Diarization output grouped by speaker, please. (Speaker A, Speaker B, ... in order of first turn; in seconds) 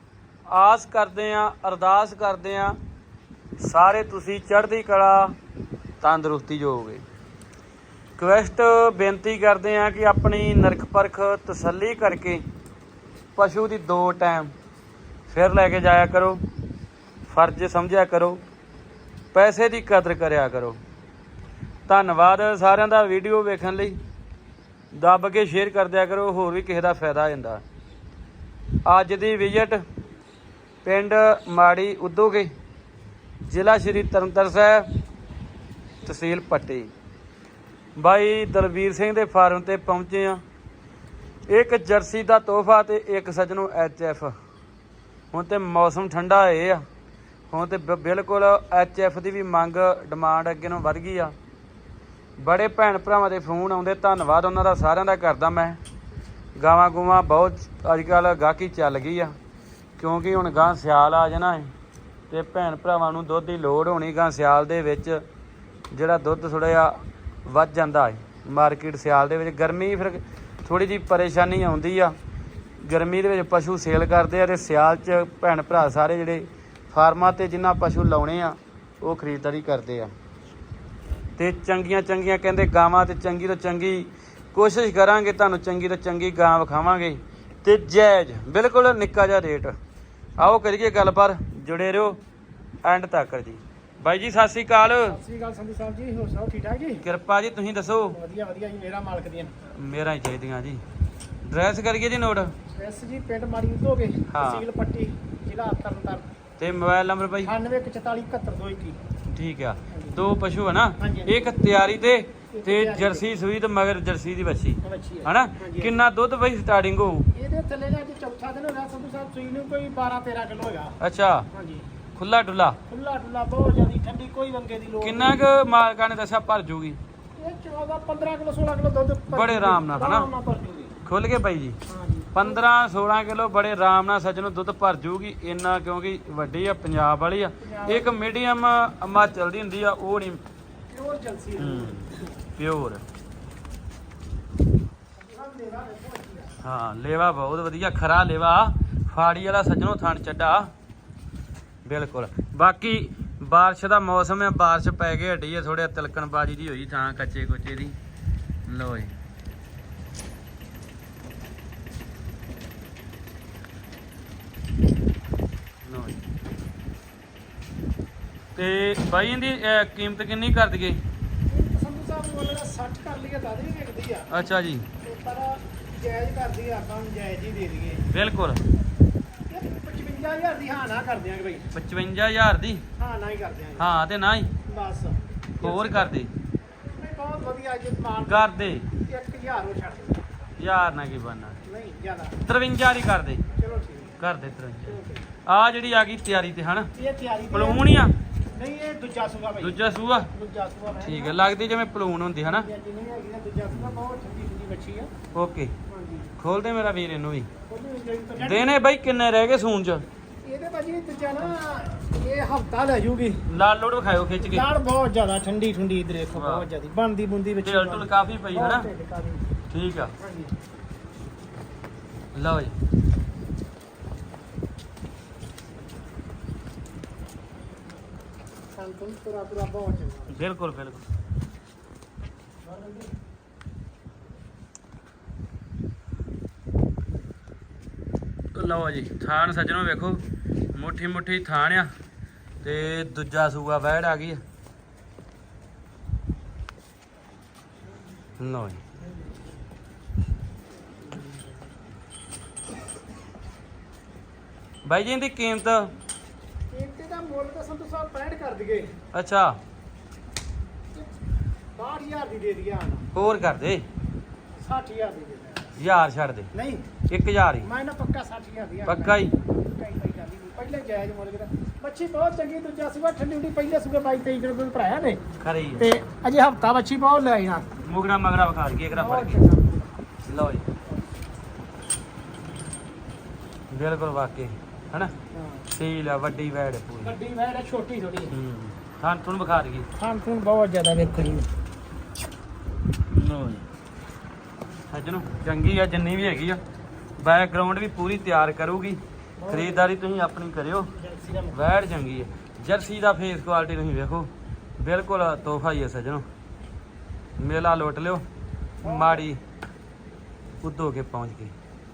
Speaker A: 0.5-2.8, 3.6-5.3, 6.0-7.0, 8.2-12.4, 13.3-14.5, 15.3-16.4, 17.2-18.4, 19.3-20.8, 21.9-24.0, 24.9-27.6, 28.8-29.8, 30.8-32.5, 33.5-34.9, 36.0-36.9, 38.0-40.4, 41.5-44.3, 45.3-46.8, 47.5-51.3, 52.4-55.8, 56.5-59.3, 60.0-61.7, 62.3-65.2, 65.9-72.2, 72.8-80.1, 81.4-89.7, 90.4-92.2, 92.8-95.2, 97.0-98.2, 99.7-100.8, 101.5-102.5, 104.3-104.7, 106.6-107.5, 109.3-117.3, 121.0-121.5, 122.2-122.8, 125.0-127.0, 129.3-130.3, 131.1-131.8, 132.3-140.4, 141.6-143.0, 146.6-150.7, 151.8-158.0, 158.7-159.1, 165.8-166.2, 168.6-171.0, 174.3-174.9, 178.1-178.6, 181.7-182.8, 183.8-184.5, 185.6-186.3, 188.2-188.9, 190.6-191.6, 192.4-193.4, 194.2-196.9, 197.5-198.1, 199.6-200.3, 201.0-202.7, 203.7-204.0, 205.3-205.7, 206.4-207.5, 208.4-210.0, 213.5-214.7, 216.3-216.7, 217.6-218.9, 219.7-220.1, 222.3-222.7, 230.3-231.0, 238.5-240.2, 240.7-241.9, 242.6-244.4, 248.4-248.8, 254.8-255.9, 259.1-259.6, 263.1-263.8, 265.8-266.5, 267.1-267.7, 268.9-269.3, 275.4-275.9, 277.8-279.4, 280.2-280.7, 283.7-285.1, 285.7-287.1, 288.3-289.9, 293.1-293.6, 294.9-296.6, 297.2-300.9, 301.5-306.2, 307.4-308.2, 308.8-309.4, 310.6-311.5
Speaker B: 95.0-97.0, 98.1-99.5, 102.7-106.3, 107.4-109.0, 109.9-110.2, 111.0-111.5, 112.5-113.3, 114.8-116.0, 117.3-120.9, 121.5-121.9, 122.9-125.4, 127.4-130.9, 131.9-132.6, 137.6-138.1, 140.9-142.2, 145.2-146.6, 171.5-174.3, 175.0-178.0, 179.5-181.7, 183.0-183.9, 184.6-186.1, 186.9-190.2, 191.6-192.4, 193.6-194.1, 194.8-195.2, 196.9-198.0, 198.5-201.4, 202.6-205.1, 205.9-206.3, 207.7-208.7, 210.4-213.4, 214.4-219.5, 220.2-220.5, 228.8-230.3, 232.6-233.1, 256.7-258.9, 261.8-263.1, 264.6-265.7, 266.5-266.9, 267.6-275.2, 275.8-277.7, 278.9-279.9, 285.3-285.7, 287.0-288.3, 290.0-291.5, 299.4-299.9, 300.9-301.6, 308.8-309.3